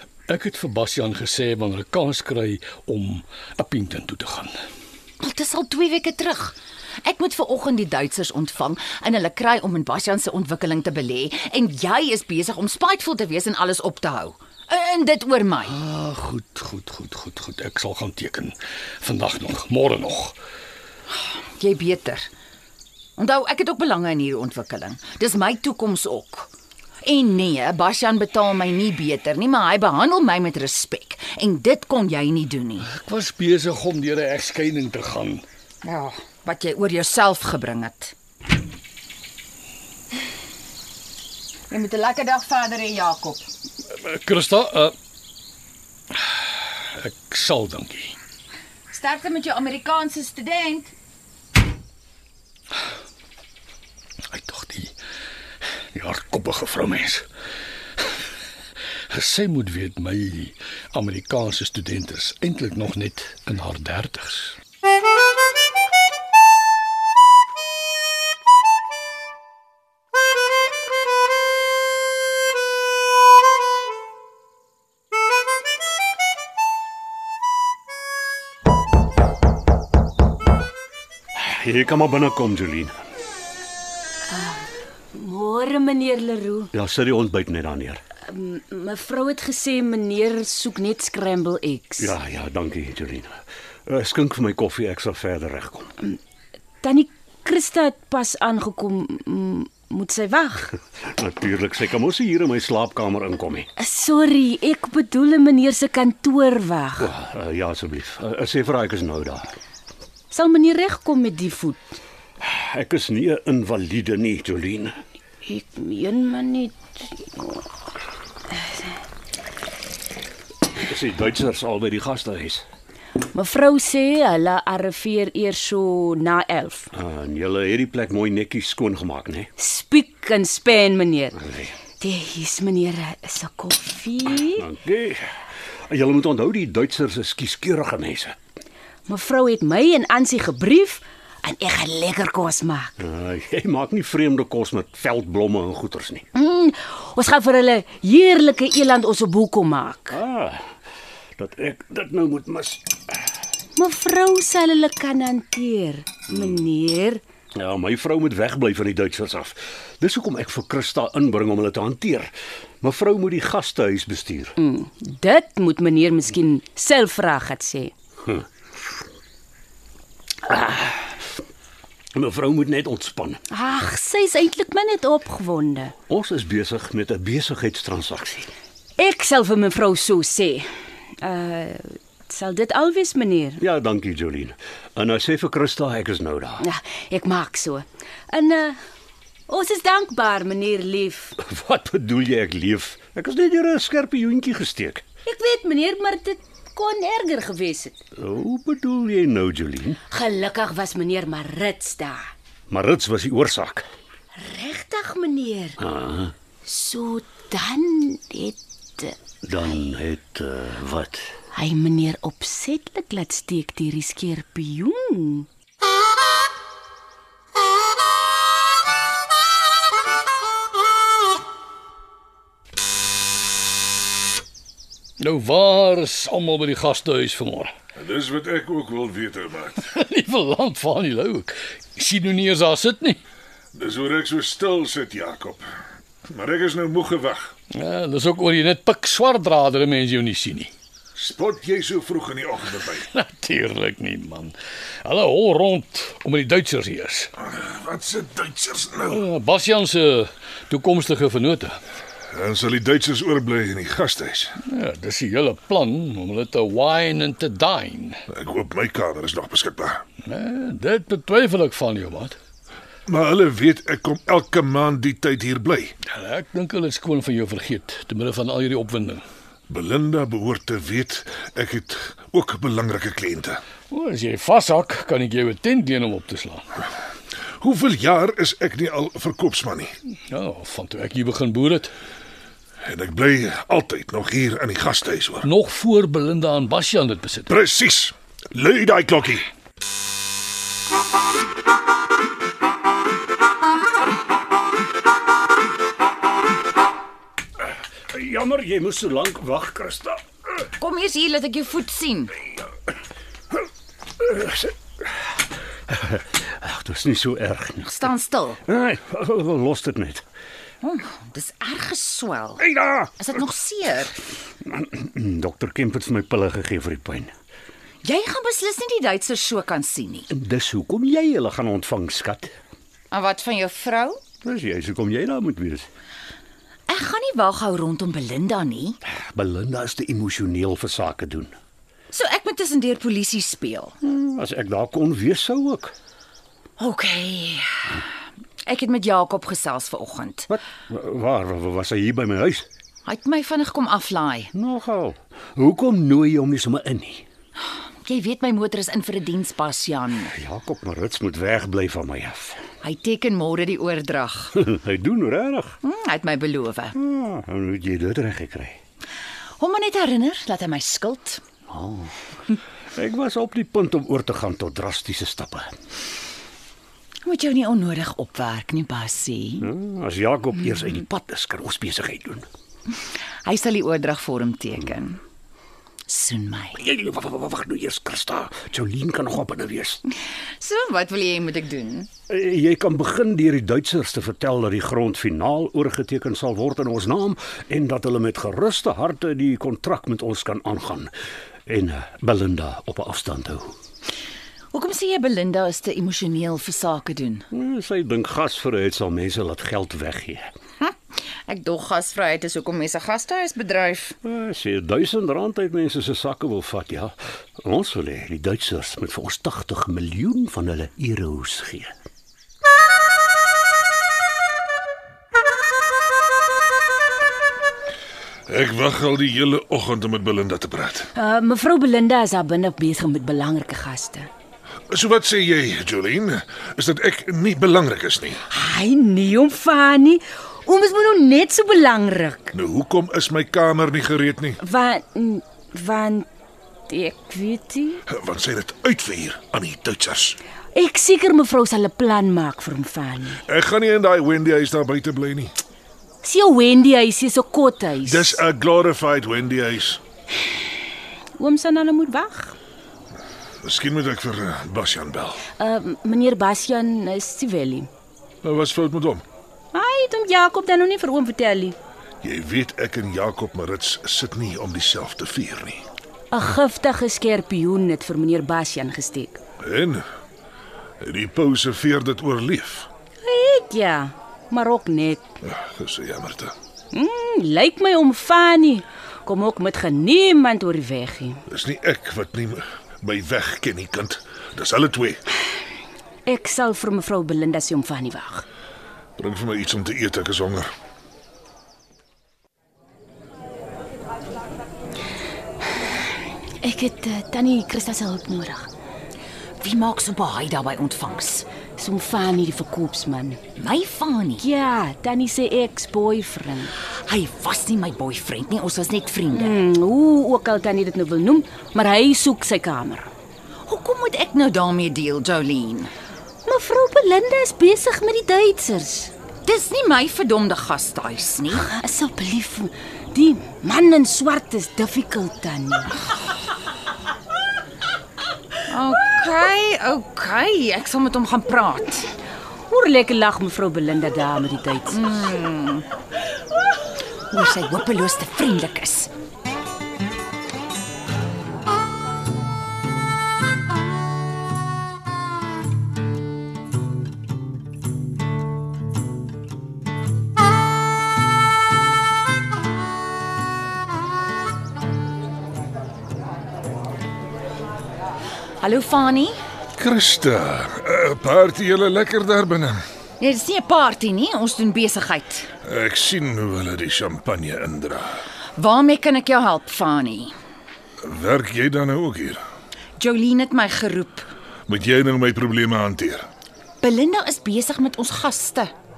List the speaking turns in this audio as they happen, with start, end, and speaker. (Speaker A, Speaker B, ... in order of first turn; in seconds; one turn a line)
Speaker A: 0.3-4.5
Speaker B: 5.2-15.8
Speaker A: 15.7-20.4
Speaker B: 21.6-22.3
Speaker B: 23.2-26.5
Speaker B: 27.0-32.9
Speaker A: 32.8-35.4
Speaker B: 35.8-38.1
Speaker B: 41.7-43.5
Speaker A: 43.9-44.9
Speaker A: 46.1-48.2
Speaker B: 48.9-50.9
Speaker A: 54.3-54.9
Speaker A: 55.9-57.2
Speaker A: 59.1-64.6
Speaker C: 81.3-83.0
Speaker D: 84.3-86.7
Speaker C: 86.7-88.0
Speaker D: 88.2-92.2
Speaker C: 92.0-95.9
Speaker D: 96.8-100.7
Speaker C: 101.0-103.7
Speaker D: 103.8-107.1
Speaker C: 107.0-109.5
Speaker D: 110.3-112.0
Speaker C: 112.4-115.0
Speaker D: 115.4-117.6
Speaker D: 118.5-118.9
Speaker C: 120.8-122.6
Speaker D: 123.3-126.9
Speaker C: 126.9-129.5
Speaker D: 129.6-131.4
Speaker C: 131.4-131.7
Speaker D: 132.0-134.7
Speaker C: 134.6-138.3
Speaker D: 139.1-142.9
Speaker C: 143.0-146.2
Speaker D: 146.3-150.2
Speaker C: 150.1-150.7
Speaker C: 151.4-153.0
Speaker D: 153.8-157.2
Speaker C: 157.5-164.5
Speaker D: 164.6-167.9
Speaker C: 168.2-168.4
Speaker C: 170.4-171.2
Speaker C: 172.1-173.4
Speaker D: 173.5-175.9
Speaker C: 176.1-178.5
Speaker D: 179.0-183.6
Speaker C: 183.6-186.7
Speaker D: 186.6-188.8
Speaker D: 189.5-191.3
Speaker C: 191.4-195.0
Speaker D: 195.2-198.0
Speaker C: 198.2-200.0
Speaker D: 200.1-202.3
Speaker C: 202.7-203.9
Speaker D: 204.4-205.8
Speaker C: 205.8-206.3
Speaker D: 206.6-209.2
Speaker C: 209.4-211.3
Speaker D: 211.5-215.5
Speaker A: 225.2-227.7
Speaker E: 227.9-229.8
Speaker A: 229.8-233.2
Speaker E: 233.7-235.7
Speaker E: 236.2-237.5
Speaker A: 237.7-240.7
Speaker E: 241.1-243.1
Speaker A: 242.9-247.3
Speaker E: 247.4-249.2
Speaker A: 249.1-251.8
Speaker E: 252.3-254.5
Speaker A: 254.7-258.2
Speaker E: 258.3-260.0
Speaker A: 260.2-262.4
Speaker E: 263.1-265.9
Speaker A: 266.0-269.2
Speaker E: 269.7-273.6
Speaker A: 273.9-276.6
Speaker E: 277.6-279.9
Speaker A: 280.3-281.9
Speaker E: 282.8-285.5
Speaker A: 285.4-287.5
Speaker E: 287.5-289.5
Speaker C: 298.1-300.2
Speaker B: 300.8-302.4
Speaker C: 304.2-305.1
Speaker C: 305.9-308.1
Speaker B: 307.8-308.6
Speaker C: 308.7-310.2
Speaker B: 310.8-314.1
Speaker C: 312.6-313.1
Speaker C: 314.6-317.3
Speaker B: 318.0-320.3
Speaker C: 320.3-322.5
Speaker B: 323.1-324.2
Speaker C: 324.4-325.9
Speaker B: 326.9-329.0
Speaker C: 329.1-331.5
Speaker B: 332.1-333.9
Speaker C: 334.0-335.9
Speaker B: 336.8-338.0
Speaker B: 338.6-340.5
Speaker C: 340.5-342.7
Speaker B: 343.0-344.5
Speaker C: 344.5-347.2
Speaker B: 347.6-350.3
Speaker C: 350.2-352.6
Speaker B: 352.8-354.6
Speaker C: 354.6-355.8
Speaker B: 355.8-356.9
Speaker C: 356.9-358.8
Speaker B: 359.6-361.4
Speaker C: 361.7-362.1
Speaker C: 362.9-365.7
Speaker B: 367.2-369.7
Speaker C: 369.6-372.5
Speaker B: 373.4-375.2
Speaker B: 376.1-376.8
Speaker C: 376.8-380.0
Speaker B: 380.6-382.1
Speaker C: 382.3-391.1
Speaker C: 391.7-393.8
Speaker B: 394.7-397.4
Speaker C: 397.5-400.5
Speaker B: 400.8-404.2
Speaker C: 404.2-411.9
Speaker E: 418.5-421.1
Speaker D: 421.1-424.3
Speaker E: 424.9-428.4
Speaker D: 428.5-432.5
Speaker E: 432.5-434.6
Speaker D: 434.6-436.3
Speaker D: 436.9-438.0
Speaker E: 438.1-440.4
Speaker D: 440.7-443.4
Speaker E: 443.4-445.6
Speaker D: 446.2-448.4
Speaker E: 448.0-450.0
Speaker D: 451.4-452.6
Speaker E: 453.6-455.4
Speaker D: 455.6-457.9
Speaker E: 458.4-459.2
Speaker D: 459.7-461.8
Speaker E: 462.2-465.8
Speaker D: 466.3-469.4
Speaker E: 469.6-470.0
Speaker E: 471.0-472.9
Speaker D: 473.2-475.3
Speaker E: 475.4-476.5
Speaker D: 476.9-481.4
Speaker E: 481.5-485.2
Speaker D: 486.2-488.4
Speaker E: 489.2-490.7
Speaker D: 496.6-498.7
Speaker B: 499.6-501.5
Speaker D: 501.8-503.4
Speaker B: 503.6-504.4
Speaker D: 504.4-506.7
Speaker B: 506.9-509.6
Speaker D: 509.3-513.1
Speaker B: 513.6-515.9
Speaker D: 516.4-519.1
Speaker B: 519.4-521.6
Speaker D: 521.5-526.0
Speaker B: 528.7-532.1
Speaker D: 532.7-535.1
Speaker B: 534.9-535.9
Speaker B: 537.3-539.1
Speaker B: 558.6-559.4
Speaker E: 559.8-562.8
Speaker B: 563.2-565.5
Speaker E: 565.6-568.2
Speaker B: 568.6-570.3
Speaker E: 571.0-572.4
Speaker B: 573.0-574.2
Speaker E: 574.7-576.3
Speaker B: 576.8-578.7